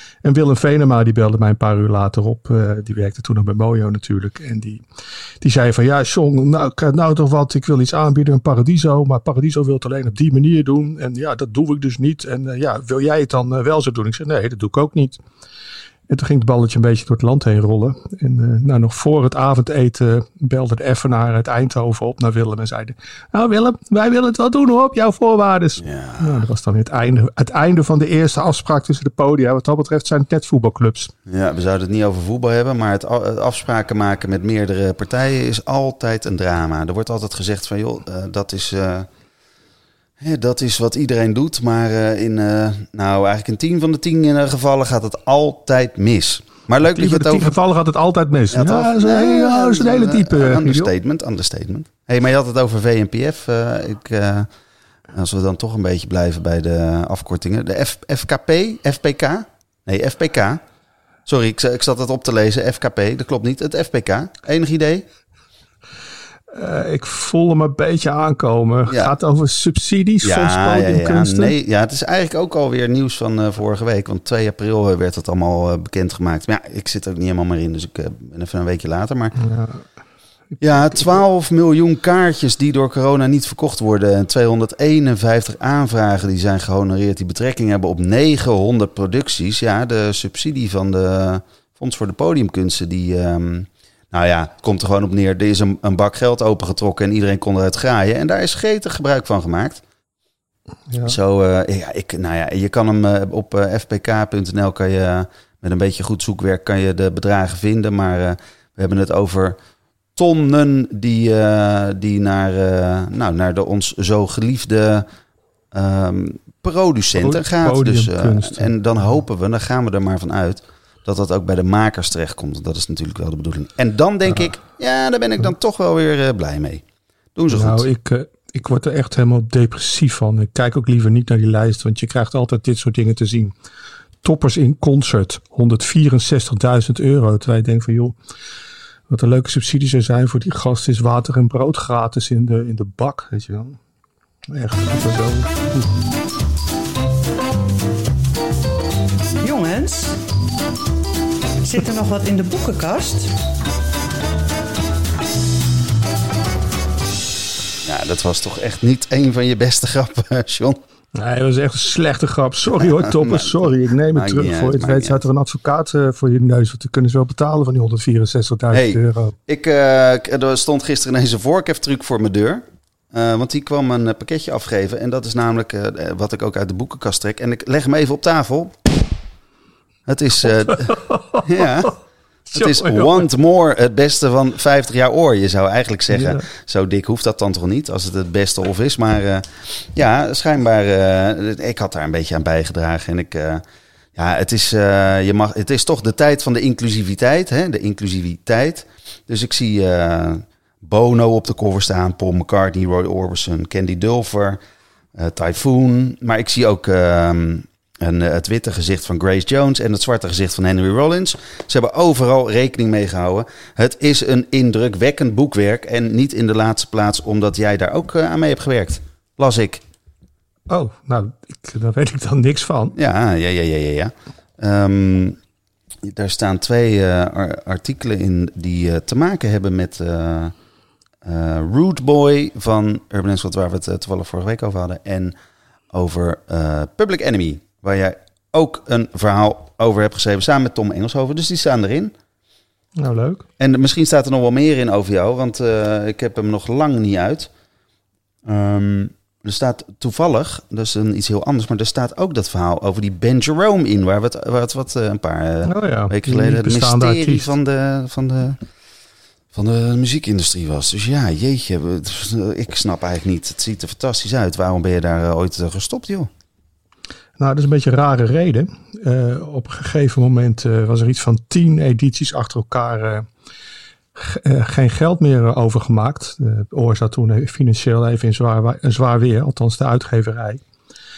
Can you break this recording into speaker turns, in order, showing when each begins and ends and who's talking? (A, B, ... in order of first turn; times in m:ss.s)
0:00.2-0:04.8 A
0:05.4-0:15.2 A
0:16.1-0:31.1 A
0:25.8-0:26.4 B
0:31.3-0:39.1 B
0:40.2-0:47.5 B
0:46.8-0:50.9 A
0:48.5-0:54.5 B
0:55.1-1:00.6 B
1:01.2-1:05.0 B
1:06.5-1:11.5 A
1:08.9-1:09.1 B
1:10.2-1:19.4 B
1:19.4-1:19.8 A
1:20.6-1:21.2 A
1:20.6-1:39.8 B
1:40.9-1:41.2 A
1:41.0-1:49.6 B
1:50.2-1:55.1 B
1:55.7-2:06.8 B
1:57.1-1:58.7 A
2:07.3-2:07.8 B
2:07.5-2:13.5 A
2:14.2-2:18.2 A
2:19.1-2:23.8 A
2:24.5-2:25.9 A
2:29.4-2:30.2 C
2:31.6-2:33.3 C
2:37.8-2:40.8 B
2:41.2-2:49.3 A
2:42.8-2:43.6 B
2:44.1-2:45.2 B
2:48.7-2:58.7 B
3:00.1-3:02.0 B
3:00.5-3:01.6 A
3:02.5-3:03.3 A
3:02.5-3:13.6 B
3:06.1-3:06.4 A
3:14.1-3:24.6 B
3:25.2-3:39.8 B
3:40.7-3:42.9 A
3:43.0-3:45.4 B
3:46.0-3:50.5 B
3:51.2-3:55.4 B
3:55.9-4:02.1 B
4:03.0-4:03.4 A
4:03.6-4:07.5 B
4:08.4-4:18.6 B
4:15.6-4:17.5 A
4:19.5-4:26.3 B
4:27.4-4:33.2 A
4:34.2-4:40.6 A